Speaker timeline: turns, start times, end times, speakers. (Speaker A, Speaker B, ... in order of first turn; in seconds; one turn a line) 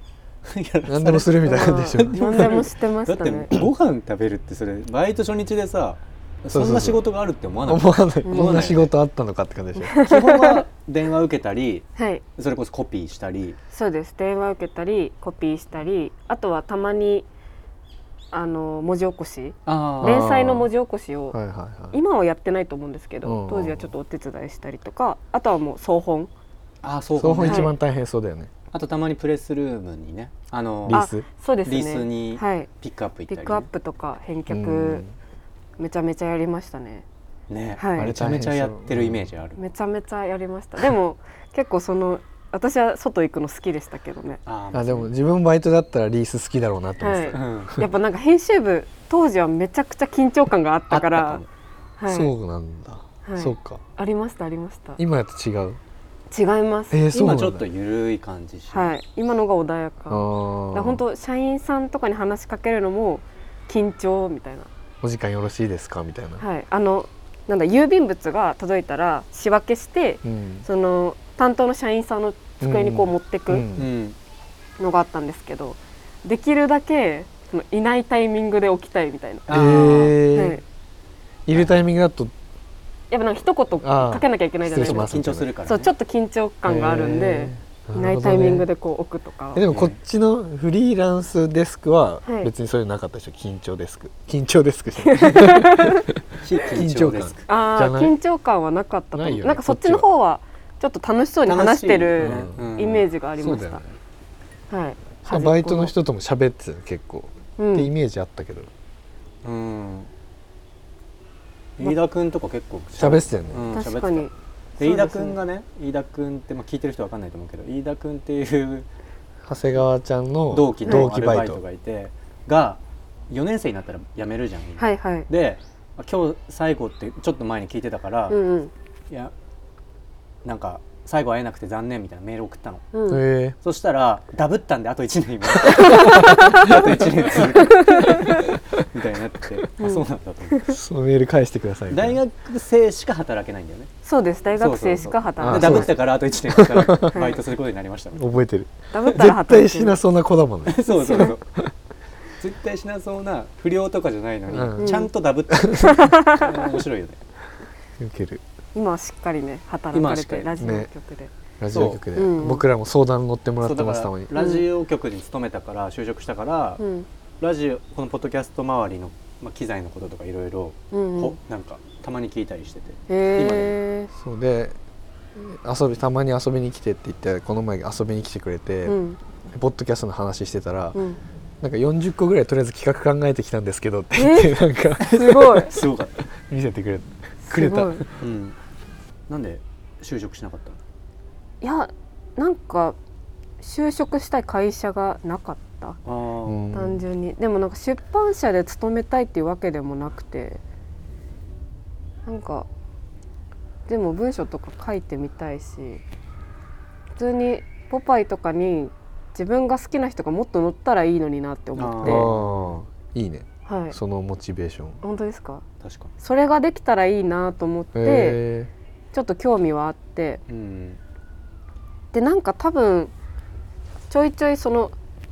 Speaker A: 0.4-8.9
Speaker B: 0.9-2.6
Speaker C: 1.4-3.5
Speaker B: 6.5-7.0
Speaker B: 7.6-10.0
Speaker C: 8.2-8.7
Speaker C: 9.8-10.6
Speaker A: 10.0-13.6
Speaker C: 11.9-12.2
Speaker C: 13.7-17.3
Speaker C: 18.3-21.4
Speaker A: 19.6-20.2
Speaker B: 20.0-20.7
Speaker B: 21.3-22.0
Speaker C: 21.9-26.3
Speaker B: 23.2-23.9
Speaker A: 26.8-27.7
Speaker B: 27.1-28.5
Speaker C: 27.4-27.7
Speaker A: 28.7-31.0
Speaker B: 30.9-31.2
Speaker C: 30.9-32.7
Speaker A: 31.6-33.7
Speaker C: 33.3-35.0
Speaker B: 34.5-35.1
Speaker C: 35.8-37.0
Speaker A: 37.5-39.6
Speaker C: 37.8-38.1
Speaker B: 38.0-39.3
Speaker C: 39.6-44.4
Speaker A: 44.5-45.1
Speaker B: 44.7-47.9
Speaker C: 47.0-51.4
Speaker A: 47.3-47.8
Speaker A: 50.9-51.5
Speaker C: 52.0-52.3
Speaker B: 52.1-53.8
Speaker C: 53.2-55.0
Speaker B: 55.0-55.8
Speaker C: 56.3-57.0
Speaker B: 56.9-57.7
Speaker A: 57.1-58.9
Speaker C: 58.7-64.7
Speaker B: 60.1-61.0
Speaker B: 65.0-66.4
Speaker C: 66.4-73.7
Speaker B: 70.2-70.7
Speaker B: 72.6-73.9
Speaker A: 73.8-74.2
Speaker C: 74.8-79.5
Speaker A: 79.5-80.2
Speaker B: 79.5-80.6
Speaker C: 80.3-80.6
Speaker B: 81.5-82.3
Speaker A: 81.5-81.9
Speaker C: 83.1-85.1
Speaker B: 83.8-85.5
Speaker A: 84.8-85.9
Speaker C: 85.7-89.6
Speaker B: 86.6-88.7
Speaker B: 89.5-98.1
Speaker A: 89.7-90.0
Speaker C: 92.2-92.5
Speaker C: 95.0-96.0
Speaker A: 96.4-97.5
Speaker C: 97.5-103.8
Speaker B: 99.1-100.0
Speaker A: 101.5-103.0
Speaker B: 102.2-102.6
Speaker B: 103.4-103.9
Speaker C: 104.7-105.9
Speaker B: 105.2-108.7
Speaker C: 107.6-107.9
Speaker A: 109.4-110.1
Speaker A: 111.8-118.9
Speaker B: 113.0-113.7
Speaker C: 113.7-115.4
Speaker B: 119.4-121.6
Speaker A: 120.5-128.4
Speaker C: 124.8-125.3
Speaker C: 128.3-128.7
Speaker A: 130.4-132.9
Speaker C: 132.9-133.2
Speaker B: 133.1-133.6
Speaker A: 133.6-140.6
Speaker C: 135.6-136.8
Speaker B: 136.2-136.5
Speaker C: 137.5-138.4
Speaker C: 139.8-140.8
Speaker B: 140.7-142.2
Speaker A: 141.9-143.9
Speaker C: 144.0-145.9
Speaker A: 144.6-148.3
Speaker B: 145.4-147.2
Speaker C: 147.1-147.4
Speaker B: 148.1-151.7
Speaker C: 148.9-150.0
Speaker A: 150.7-151.4
Speaker C: 150.9-151.3
Speaker A: 152.4-157.2
Speaker B: 154.5-154.9
Speaker C: 154.8-155.1
Speaker B: 155.5-156.1
Speaker C: 155.8-156.4
Speaker B: 158.0-158.4
Speaker C: 158.7-161.3
Speaker A: 159.9-160.5
Speaker B: 160.6-160.9
Speaker B: 161.6-164.4
Speaker A: 161.7-162.0
Speaker C: 162.1-162.6
Speaker A: 163.6-166.8
Speaker C: 164.3-164.6
Speaker C: 166.8-167.1
Speaker A: 167.4-173.8
Speaker C: 170.9-171.4
Speaker C: 173.1-174.1
Speaker B: 174.1-174.8
Speaker B: 175.4-178.9
Speaker C: 178.8-179.2
Speaker B: 179.5-181.0
Speaker C: 180.9-181.2
Speaker B: 181.6-185.7
Speaker C: 184.1-185.7
Speaker A: 185.0-186.2
Speaker B: 186.2-188.1
Speaker C: 187.4-188.0
Speaker A: 188.2-188.6
Speaker A: 189.3-190.8
Speaker C: 191.6-192.9
Speaker C: 193.6-196.0
Speaker A: 196.0-196.8
Speaker B: 196.4-197.0
Speaker C: 196.7-200.6
Speaker C: 202.2-202.7
Speaker C: 203.9-206.0
Speaker C: 207.2-212.3
Speaker A: 211.7-212.7
Speaker B: 212.0-215.0
Speaker C: 213.7-213.9
Speaker C: 215.0-215.6
Speaker A: 215.8-216.1
Speaker C: 216.2-218.4
Speaker B: 217.9-218.7
Speaker C: 219.1-220.4
Speaker A: 220.5-221.0
Speaker C: 222.1-223.1
Speaker C: 224.1-224.9